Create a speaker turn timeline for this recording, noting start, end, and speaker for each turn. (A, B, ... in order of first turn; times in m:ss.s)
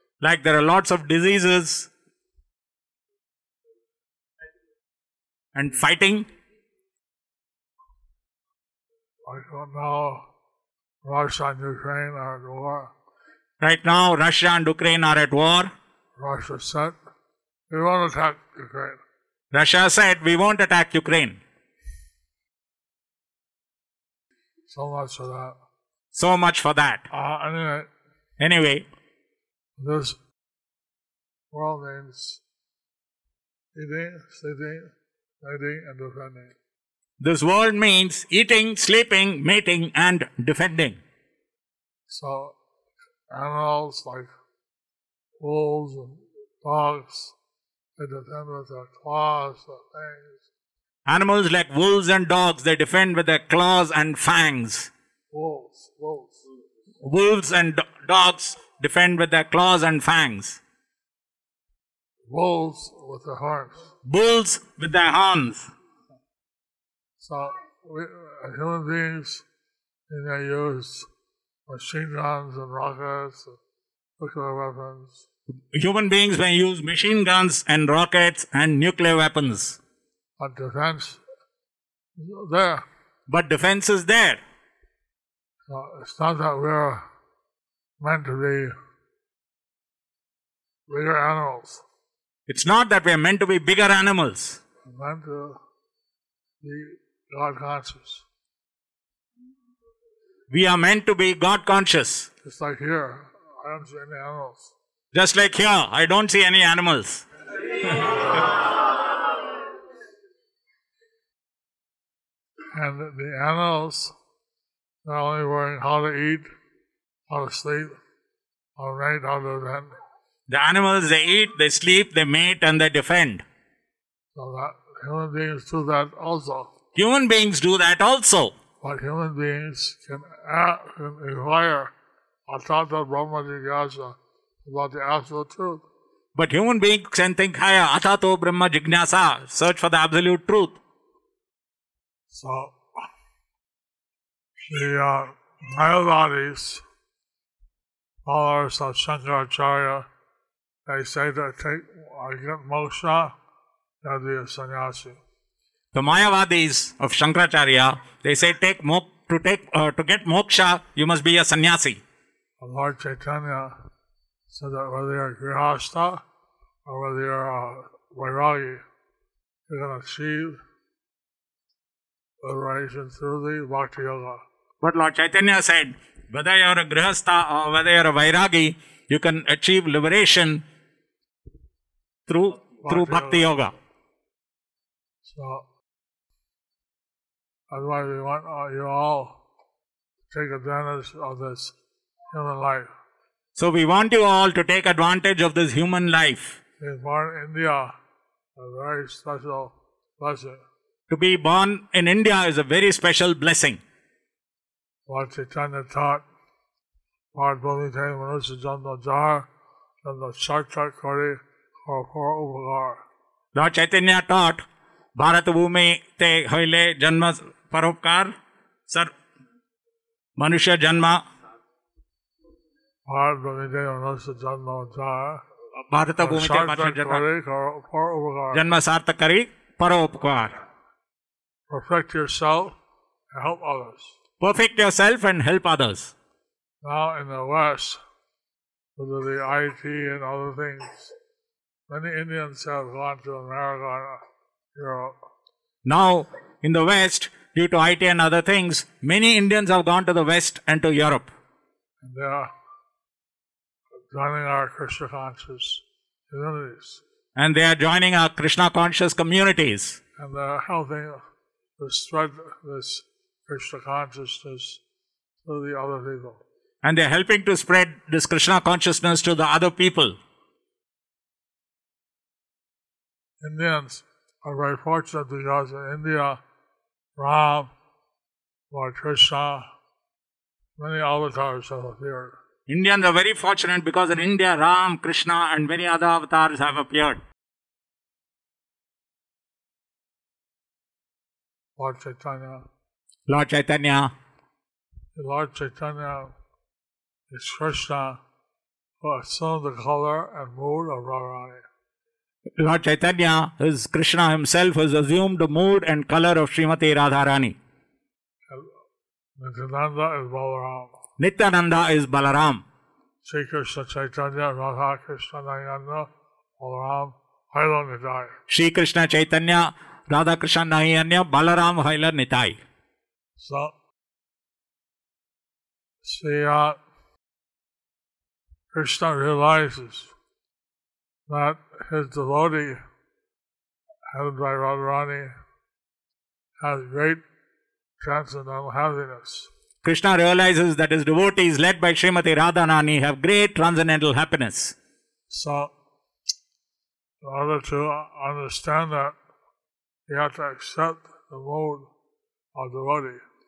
0:00.2-0:01.9 A
0:05.6-0:06.3 A
0:09.3-0:10.2 B
0:11.0-0:12.9 B
0:13.6-0:15.7 A
0:16.2-0:17.0 B
0:17.7-0:19.0 B
0:19.5-0:21.4 A
0:24.7-0:25.6 B
0:26.1-0:27.1 A
0:27.1-0:27.9 B
0:28.4-0:28.9 A
0:29.8-0:30.2 B
0:31.5-0:32.4 B
0:33.7-0:34.9 B
0:35.4-0:36.6 B
0:37.2-0:41.0 A
0:42.1-0:42.6 B
0:43.3-0:44.3 B
0:45.4-0:47.4 B
0:48.0-0:50.5 B
0:51.1-0:54.9 A
0:55.3-0:56.4 B
0:57.0-1:00.6 A
1:02.3-1:03.9 B
1:04.0-1:05.7 A
1:07.2-1:09.4 B
1:10.1-1:11.1 B
1:11.7-1:13.6 B
1:14.2-1:15.3 B
1:15.7-1:19.8 A
1:20.4-1:21.2 B
1:22.2-1:22.8 B
1:23.3-1:24.4 A
1:25.7-1:27.0 B
1:28.0-1:28.7 B
1:30.9-1:31.8 B
1:32.5-1:34.6 A
1:34.8-1:35.6 B
1:36.6-1:38.2 B
1:40.5-1:42.3 A
1:42.4-1:44.7 B
1:45.1-1:47.2 A
1:52.7-1:54.1 B
1:55.0-1:56.5 B
1:57.3-1:58.0 B
1:58.8-1:59.9 B
2:00.5-2:03.4 A
2:04.4-2:06.7 B
2:07.0-2:08.5 A
2:08.8-2:11.9 B
2:12.5-2:15.8 B
2:16.4-2:20.8 A
2:22.3-2:22.8 B
2:24.7-2:26.8 B
2:28.2-2:30.1 B
2:30.9-2:33.3 B
2:34.0-2:35.2 B
2:35.9-2:42.0 A
2:42.6-2:43.8 B
2:44.5-2:46.2 B
2:46.9-2:48.8 B
2:49.7-2:50.6 B
2:52.4-2:54.4 B
2:54.8-3:00.6 A
3:02.3-3:03.7 A
3:02.8-3:03.5 B
3:05.2-3:05.6 B
3:07.7-3:09.4 B
3:10.3-3:11.7 B
3:12.3-3:12.9 B
3:13.6-3:16.6 A
3:16.8-3:17.9 B
3:18.6-3:20.6 B
3:21.1-3:23.8 A
3:25.1-3:26.2 B
3:27.3-3:29.5 B
3:30.0-3:33.0 B
3:33.6-3:34.6 A
3:35.2-3:38.3 A
3:40.4-3:41.2 A
3:43.1-3:45.4 B
3:45.9-3:47.2 A
3:46.2-3:48.6 B
3:48.5-3:50.6 A
3:51.7-3:52.8 B
3:53.3-3:54.2 B
3:54.4-3:56.1 A
3:56.8-3:58.0 B
3:59.0-4:01.1 B
4:01.9-4:04.2 B
4:04.7-4:05.2 B
4:05.8-4:11.3 A
4:12.0-4:12.5 B
4:14.1-4:17.0 B
4:17.4-4:20.0 A
4:20.2-4:21.2 B
4:21.8-4:24.8 B
4:25.4-4:26.4 B
4:26.8-4:30.2 A
4:33.4-4:36.4 B
4:37.2-4:37.7 B
4:38.7-4:39.7 B
4:40.8-4:42.4 B
4:42.7-4:47.2 A
4:51.8-4:52.7 B
4:53.3-4:54.1 A
4:55.2-4:56.3 B
4:57.3-4:58.2 B
4:59.0-5:01.6 B
5:02.6-5:07.6 A
5:09.4-5:11.0 B
5:11.2-5:12.6 A
5:13.2-5:18.4 B
5:18.5-5:22.6 A
5:23.4-5:23.7 B
5:26.0-5:26.8 B
5:28.7-5:30.1 B
5:31.3-5:32.8 B
5:34.1-5:35.3 B
5:36.6-5:37.2 B
5:38.0-5:39.5 B
5:39.8-5:44.8 A
5:45.3-5:45.7 B
5:47.2-5:49.2 B
5:50.1-5:51.9 B
5:52.6-5:53.2 B